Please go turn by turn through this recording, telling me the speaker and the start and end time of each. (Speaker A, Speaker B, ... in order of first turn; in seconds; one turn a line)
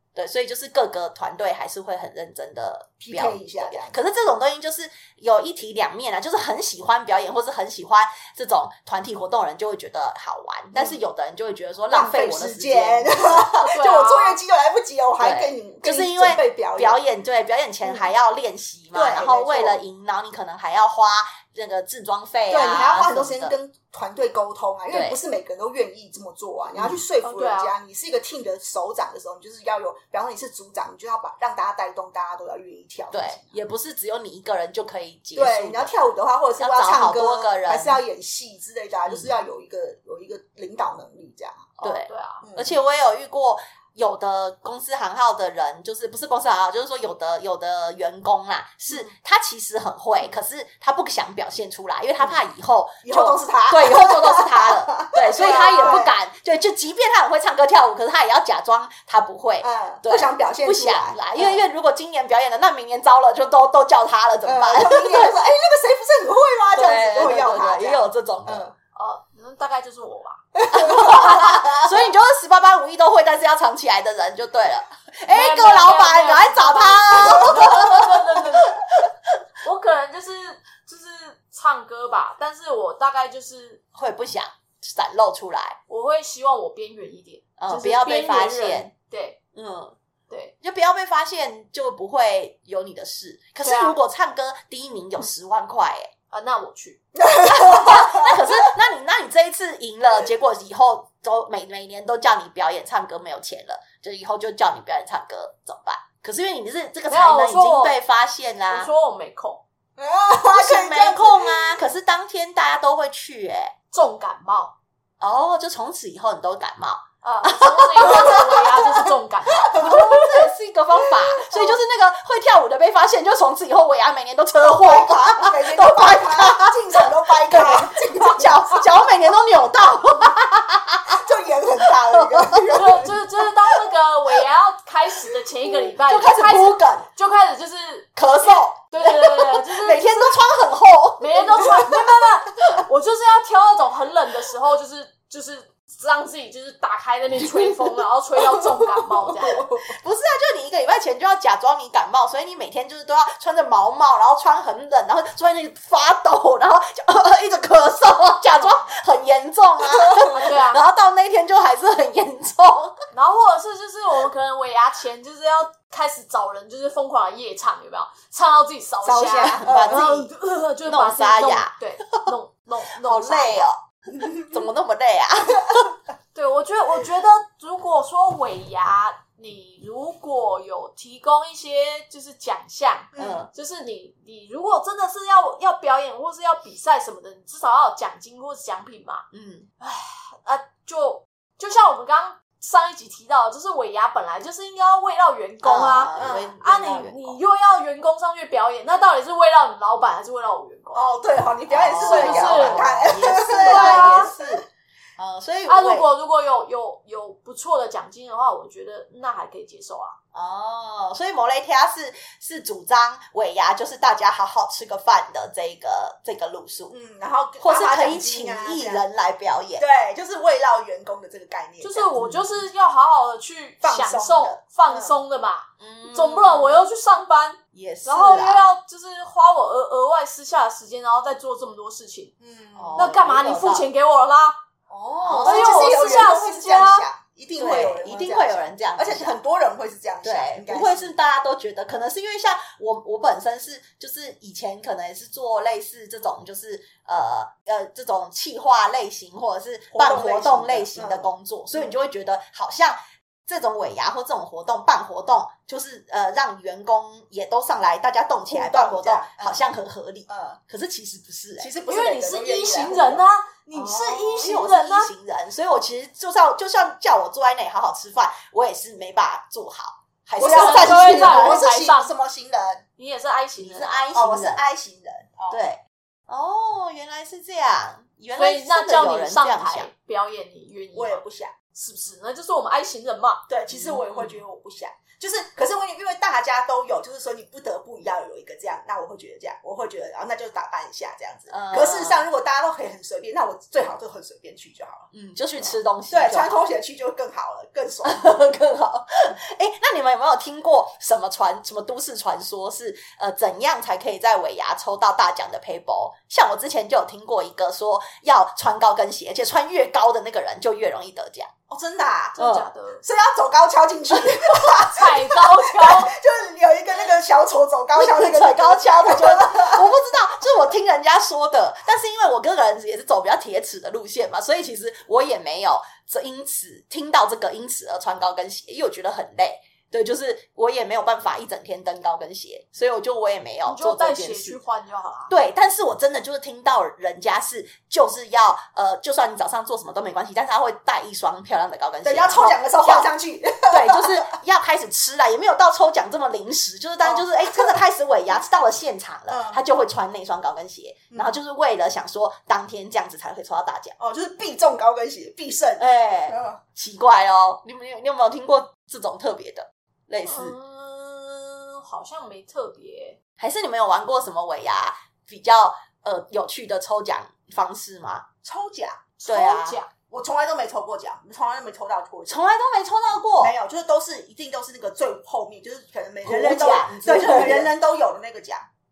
Speaker A: 0.1-13.5
Speaker B: 3.0-4.0
Speaker B: 10.7-11.0
Speaker B: 11.9-17.0
Speaker C: 13.5-14.4
Speaker A: 15.2-23.5
Speaker B: 18.9-19.8
Speaker B: 22.5-33.5
Speaker A: 24.9-25.2
Speaker A: 26.8-27.0
Speaker C: 27.2-27.7
Speaker A: 33.1-35.9
Speaker B: 35.3-41.7
Speaker A: 36.6-38.0
Speaker A: 39.1-39.3
Speaker A: 41.8-65.3
Speaker C: 41.8-42.4
Speaker B: 42.4-42.7
Speaker B: 53.0-56.1
Speaker C: 55.3-56.0
Speaker B: 59.6-61.6
Speaker B: 64.4-68.7
Speaker A: 66.7-68.7
Speaker C: 68.9-71.6
Speaker B: 70.5-71.3
Speaker A: 70.7-79.1
Speaker C: 75.3-78.8
Speaker B: 77.2-77.7
Speaker C: 79.6-83.8
Speaker A: 83.9-85.8
Speaker C: 85.9-89.4
Speaker A: 87.6-88.9
Speaker A: 89.5-90.0
Speaker C: 90.3-90.5
Speaker A: 90.6-96.1
Speaker C: 93.6-94.0
Speaker C: 96.3-97.0
Speaker B: 97.2-98.4
Speaker A: 97.4-108.9
Speaker C: 107.1-108.0
Speaker C: 108.7-109.6
Speaker B: 110.0-111.8
Speaker A: 110.4-113.7
Speaker C: 113.9-114.7
Speaker A: 115.2-118.7
Speaker C: 117.2-119.9
Speaker B: 118.1-118.5
Speaker B: 119.6-120.4
Speaker A: 119.7-131.2
Speaker B: 121.1-121.5
Speaker B: 124.6-128.9
Speaker B: 131.1-133.2
Speaker A: 131.9-132.8
Speaker C: 132.7-140.3
Speaker A: 135.9-137.1
Speaker A: 138.2-141.9
Speaker C: 141.2-149.6
Speaker B: 149.4-149.9
Speaker A: 149.8-163.0
Speaker C: 160.4-160.8
Speaker C: 163.1-173.7
Speaker B: 169.0-170.2
Speaker A: 169.6-170.3
Speaker A: 170.8-172.3
Speaker A: 173.0-175.9
Speaker B: 174.1-174.5
Speaker C: 176.3-189.2
Speaker B: 183.1-183.5
Speaker A: 183.2-183.5
Speaker A: 189.3-189.7
Speaker C: 189.8-201.1
Speaker A: 195.6-197.4
Speaker B: 196.2-196.5
Speaker B: 200.9-204.6
Speaker A: 201.7-204.6
Speaker C: 202.0-204.3
Speaker A: 205.2-206.1
Speaker C: 205.7-210.2
Speaker A: 210.3-216.9
Speaker B: 216.9-219.0
Speaker A: 217.6-219.8
Speaker B: 219.8-222.1
Speaker C: 221.8-232.3
Speaker A: 222.2-222.6
Speaker B: 223.8-225.2
Speaker A: 225.8-226.8
Speaker A: 227.7-228.6
Speaker B: 232.4-233.1
Speaker A: 232.8-233.8
Speaker C: 232.9-234.6
Speaker B: 234.9-241.1
Speaker A: 235.2-236.2
Speaker C: 235.4-237.1
Speaker A: 237.6-239.3
Speaker A: 240.2-261.7
Speaker B: 249.9-251.9
Speaker B: 258.5-259.6
Speaker B: 260.3-260.6
Speaker B: 261.6-264.3
Speaker C: 261.9-265.1
Speaker A: 263.8-271.6
Speaker B: 270.4-272.8
Speaker C: 270.4-272.1
Speaker C: 273.0-274.1
Speaker A: 273.6-274.6
Speaker B: 274.1-275.6
Speaker A: 275.5-279.9
Speaker C: 278.3-281.2
Speaker B: 280.9-281.5
Speaker C: 281.7-283.5
Speaker B: 283.5-295.1
Speaker A: 283.7-284.4
Speaker A: 291.5-292.2
Speaker A: 295.1-296.6
Speaker B: 296.1-298.3
Speaker A: 298.0-311.5
Speaker B: 311.7-312.4
Speaker C: 312.4-313.0
Speaker A: 312.4-312.7
Speaker B: 313.0-319.9
Speaker C: 314.8-316.1
Speaker A: 317.9-334.6
Speaker C: 333.6-335.3
Speaker A: 335.3-343.1
Speaker B: 342.0-344.3
Speaker A: 343.7-353.9
Speaker B: 347.0-347.8
Speaker B: 349.3-349.6
Speaker B: 351.1-351.4
Speaker B: 354.0-356.6
Speaker A: 355.8-360.5
Speaker C: 360.2-363.2
Speaker A: 363.4-368.3
Speaker B: 368.4-369.1
Speaker C: 369.2-369.9
Speaker A: 369.2-369.8
Speaker B: 370.1-372.4
Speaker A: 372.3-373.5
Speaker B: 373.4-378.7
Speaker A: 376.2-377.7